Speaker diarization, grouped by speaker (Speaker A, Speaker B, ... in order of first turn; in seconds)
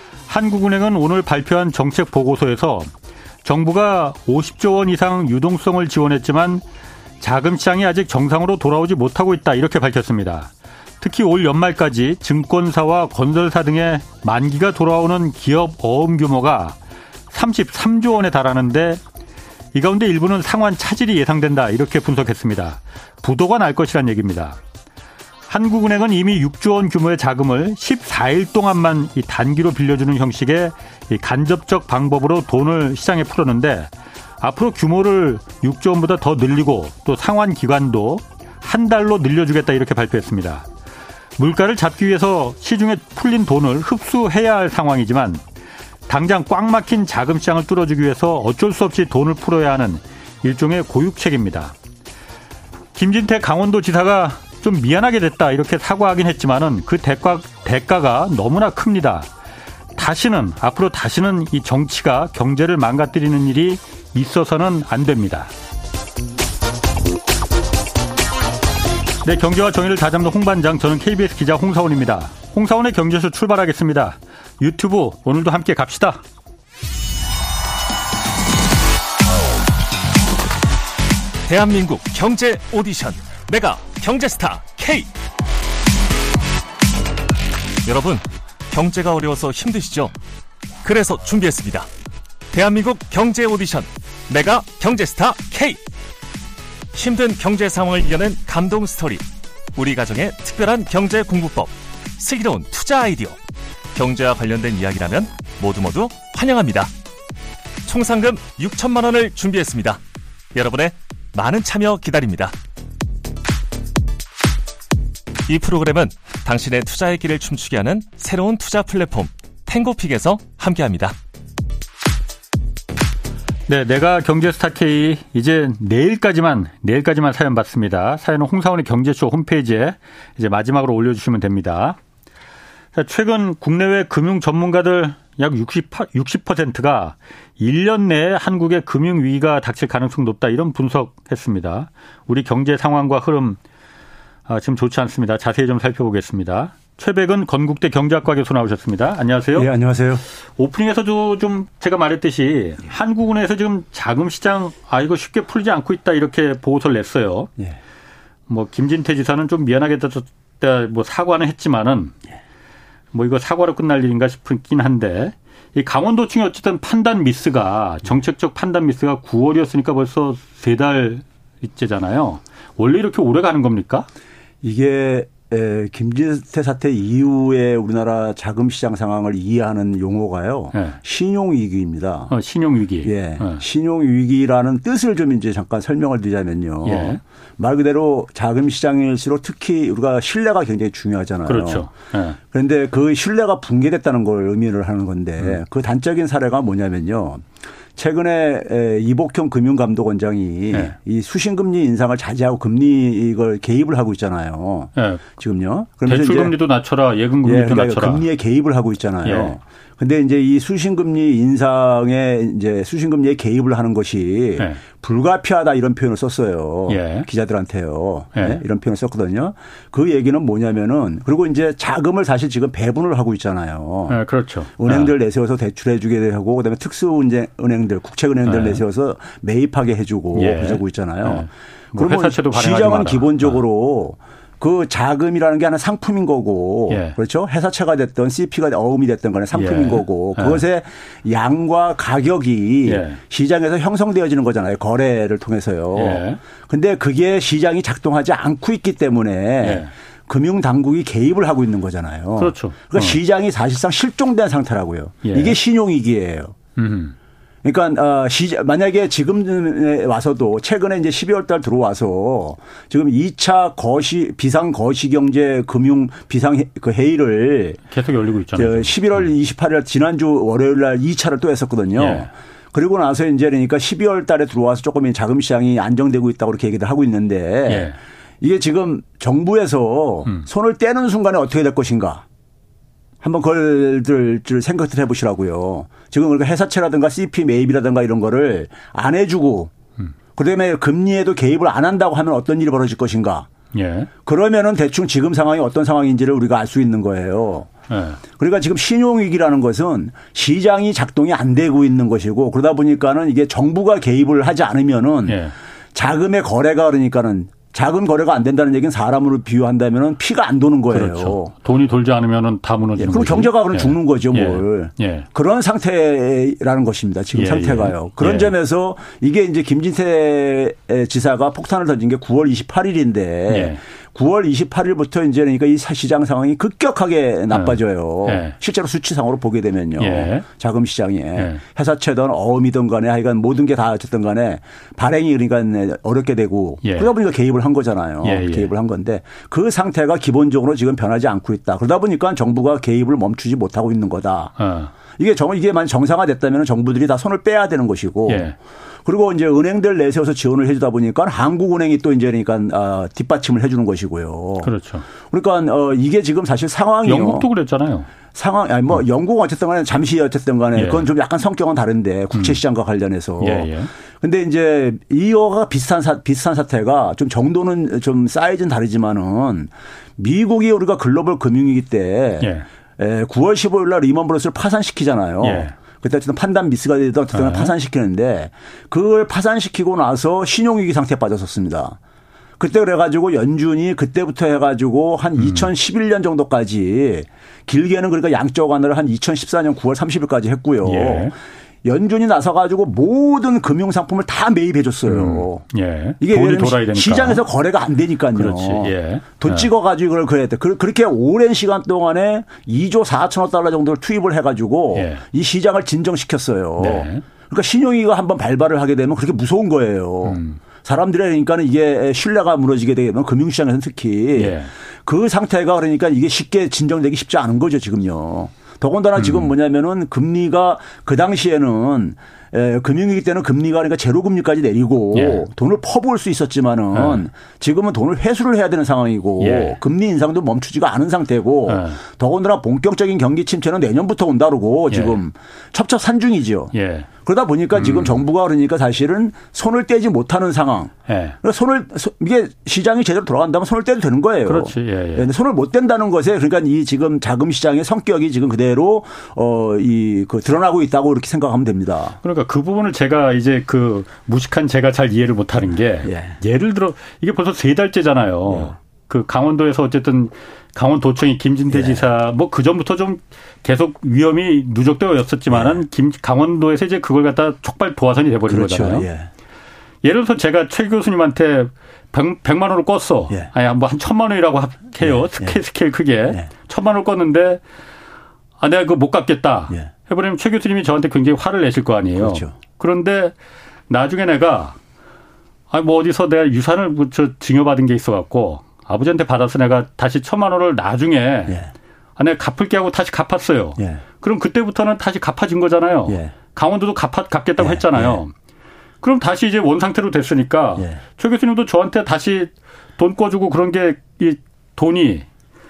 Speaker A: 0.3-2.9, 3.4-6.6, 7.2-16.8, 17.3-19.0, 19.7-24.6, 25.5-40.7, 41.4-45.4, 46.1-51.7, 52.9-59.3, 60.0-65.5, 69.2-76.2, 123.7-132.0, 132.9-143.6, 144.5-149.7, 150.6-157.5, 158.5-162.2, 163.1-174.1, 182.3-183.6, 186.8-187.2, 191.4-192.4, 204.9-205.2, 206.1-208.2, 209.2-209.5, 216.9-217.3, 218.3-218.6, 224.1-225.1, 228.5-228.8, 230.3-233.6, 236.9-237.2, 239.5-240.6, 242.8-243.2, 246.0-246.4, 249.6-249.9, 252.4-253.2, 255.2-255.6, 256.8-257.1, 267.9-269.3, 272.0-272.3, 277.7-278.0, 293.7-294.1, 297.9-298.2, 305.3-305.5, 310.9-315.3, 317.3-318.5, 323.5-323.8, 327.5-328.6, 330.0-330.5, 331.4-331.6, 336.8-337.1, 338.2-338.7, 344.6-344.9, 348.3-348.6, 354.6-355.1, 357.1-358.1, 360.8-361.1, 363.4-363.9, 375.4-375.8, 377.3-377.7, 385.4-385.7, 390.8-391.3, 395.1-397.4, 398.4-399.7, 404.9-405.2, 406.8-407.2, 410.3-410.6, 414.4-414.7, 419.2-419.5, 425.1-425.4, 426.9-427.2, 429.4-429.8, 431.7-432.0, 434.9-435.2, 436.7-437.1, 437.8-438.2, 441.1-441.4, 444.5-445.3, 452.2-469.1, 470.0-477.6, 478.6-483.4, 483.9-484.8, 485.7-491.6, 492.2-498.3, 499.0-505.3
Speaker B: 81.5-85.1, 87.8-90.1, 90.8-91.9, 92.5-95.8, 96.9-99.2, 99.7-103.4, 103.9-106.9, 107.8-110.0, 110.5-112.5, 115.5-121.2
Speaker C: 149.6-150.2, 174.6-182.3, 183.0-191.9, 192.5-206.5, 207.4-224.2, 224.8-256.6, 257.6-267.8, 268.6-282.2, 283.2-289.7, 290.4-293.5, 294.2-297.7, 298.4-305.4, 305.9-311.5, 313.0-344.6, 345.1-348.5, 349.1-357.4, 358.3-363.7, 364.2-382.0, 382.6-391.3, 391.8-395.6, 396.2-452.2, 456.1-456.4, 461.7-462.0, 465.5-465.8, 468.5-469.3, 475.0-475.6, 482.2-482.5, 497.6-498.2